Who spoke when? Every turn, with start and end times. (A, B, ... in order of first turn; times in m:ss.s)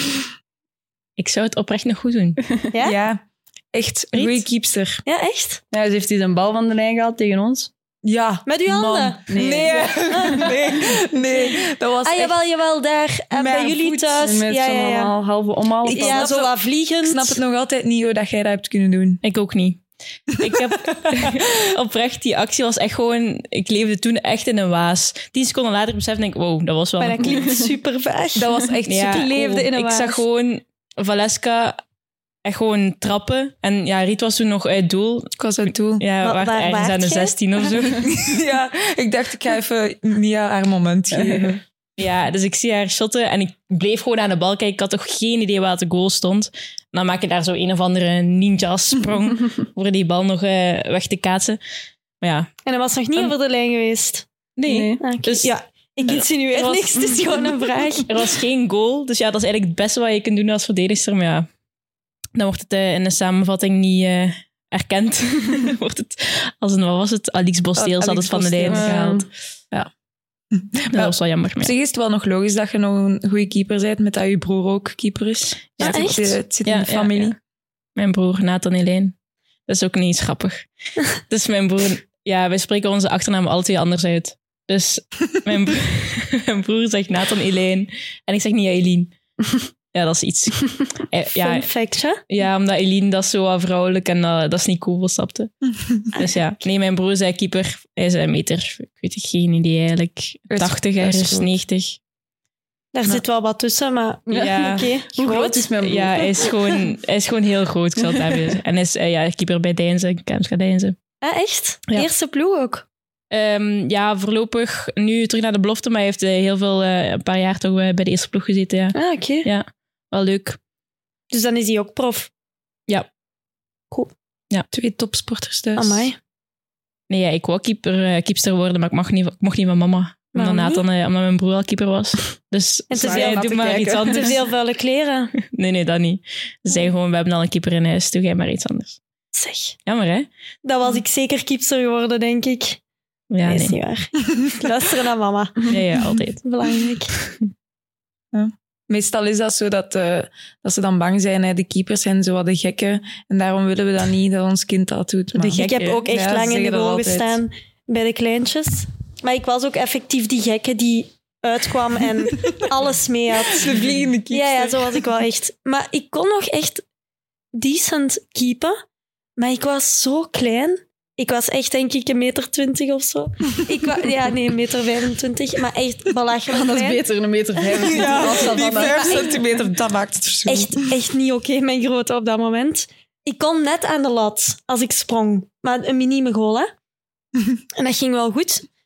0:01.2-0:02.4 A
0:02.7-0:03.0 B
0:02.8-0:03.2 C
0:03.7-0:05.0 C
0:05.0-0:05.6 B
0:05.7-0:07.7 D
0:08.0-0:12.4 C
0:08.4-0:15.1 B
0:09.3-0:10.5 D
0:13.3-0:14.2 C
0:14.2-0:16.3 D
0:15.8-0:17.4 B
0:15.8-0:19.2 C
0:19.2-0:19.8 A
0:20.4-0:27.5 A
0:21.1-0:21.4 C
0:27.0-0:30.2 B
0:28.3-0:29.3 C
0:28.9-0:31.8 A
0:32.4-0:35.3 A
0:35.4-0:36.0 C
0:36.0-0:38.1 A
0:36.2-0:37.7 B
0:37.8-0:41.6 C
0:41.1-0:41.5 D
0:42.0-0:51.6 A
0:52.2-0:52.5 A
0:52.6-0:54.2 B
0:54.6-0:55.5 A
0:54.7-0:55.0 D
0:55.0-0:58.1 B
0:56.1-0:56.9 A
0:58.0-1:01.5 A
1:02.3-1:09.2 A
1:07.8-1:09.2 C
1:08.6-1:09.3 D
1:10.5-1:17.4 C
1:10.9-1:11.7 A
1:15.8-1:16.1 A
1:15.8-1:16.4 B
1:16.6-1:17.4 A
1:18.0-1:19.1 A
1:19.7-1:20.6 A
1:21.3-1:29.1 A
1:29.9-1:31.7 A
1:31.4-1:32.2 B
1:32.3-1:35.5 A
1:36.1-1:42.0 A
1:40.5-1:41.5 C
1:42.9-1:45.7 B
1:44.3-1:46.4 D
1:44.3-1:44.9 A
1:45.8-1:51.0 A
1:51.2-1:52.9 B
1:53.3-2:00.6 A
1:58.9-1:59.5 B
2:01.3-2:02.3 B
2:04.7-2:06.1 C
2:05.8-2:06.2 B
2:07.1-2:14.4 A
2:10.3-2:10.8 B
2:12.9-2:15.3 B
2:13.0-2:14.0 D
2:15.4-2:19.0 A
2:19.3-2:19.8 B
2:19.9-2:20.3 A
2:20.6-2:22.8 B
2:23.3-2:23.8 A
2:23.4-2:25.8 B
2:25.7-2:26.4 A
2:26.4-2:27.1 B
2:28.3-2:37.4 C
2:35.5-2:43.7 B
2:43.5-2:45.0 C
2:44.3-2:46.8 B
2:47.5-2:48.8 B
2:49.4-2:57.0 B
2:56.5-2:59.4 D
2:57.7-2:59.5 B
2:57.8-3:00.9 C
3:00.5-3:06.7 B
3:07.8-3:08.7 B